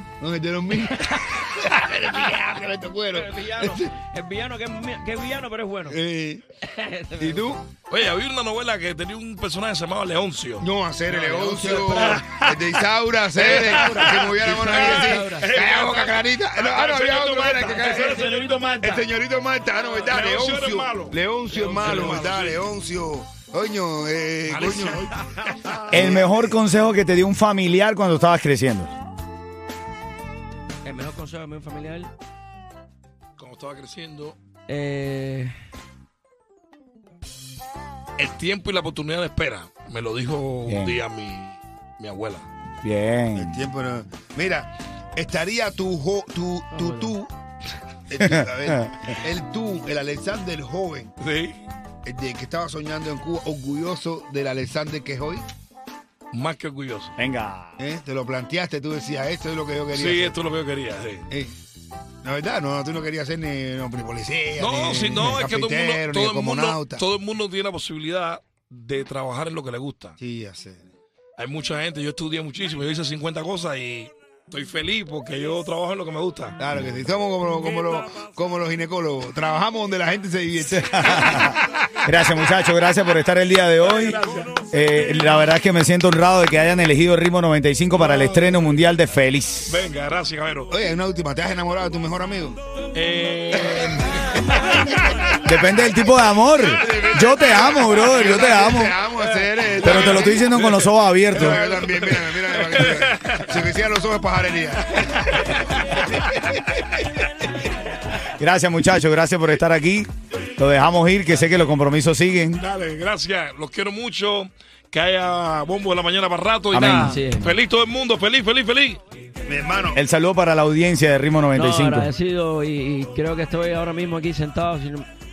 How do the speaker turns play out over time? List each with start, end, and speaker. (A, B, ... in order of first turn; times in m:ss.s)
0:00.2-0:03.9 A
0:00.9-0:01.4 B
0:03.1-0:06.0 B
0:05.9-0:06.4 A
0:06.6-0:07.4 B
0:07.2-0:07.6 A
0:07.9-0:10.7 C
0:10.6-0:25.2 A
0:11.1-0:12.2 B
0:13.4-0:15.5 B
0:13.4-0:19.0 C
0:17.9-0:18.7 B
0:20.1-0:22.7 C
0:21.5-0:22.3 B
0:24.5-0:25.9 C
0:25.8-0:26.6 A
0:25.9-0:28.9 D
0:30.8-0:32.1 B
0:33.4-0:34.4 C
0:34.7-0:35.5 B
0:38.2-0:42.5 C
0:40.7-0:41.0 D
0:42.8-0:43.6 D
0:43.4-0:47.3 A
0:46.7-0:47.1 B
0:48.1-0:51.1 A
0:48.2-0:49.1 D
0:51.2-0:51.6 C
0:52.0-0:55.4 A
0:56.3-0:57.2 C
0:57.2-0:57.8 D
0:57.8-1:00.4 A
0:59.9-1:01.3 C
1:01.3-1:01.6 A
1:02.2-1:07.0 A
1:04.6-1:10.2 C
1:10.2-1:10.9 A
1:11.4-1:16.6 C
1:16.6-1:21.6 A
1:17.6-1:18.2 C
1:20.6-1:24.2 D
1:23.8-1:24.7 C
1:24.7-1:29.8 D
1:28.0-1:28.6 C
1:29.7-1:30.8 C
1:30.7-1:32.6 A
1:32.9-1:35.2 C
1:33.7-1:34.0 A
1:35.4-1:39.0 D
1:36.7-1:40.5 A
1:39.2-1:43.6 C
1:39.8-1:41.6 D
1:41.3-1:45.5 A
1:45.0-1:45.7 C
1:48.4-1:52.6 D
1:52.6-1:59.0 C
1:56.7-1:57.2 D
1:57.0-1:57.5 B
1:59.5-2:00.0 A
1:59.9-2:02.1 D
2:01.6-2:05.1 B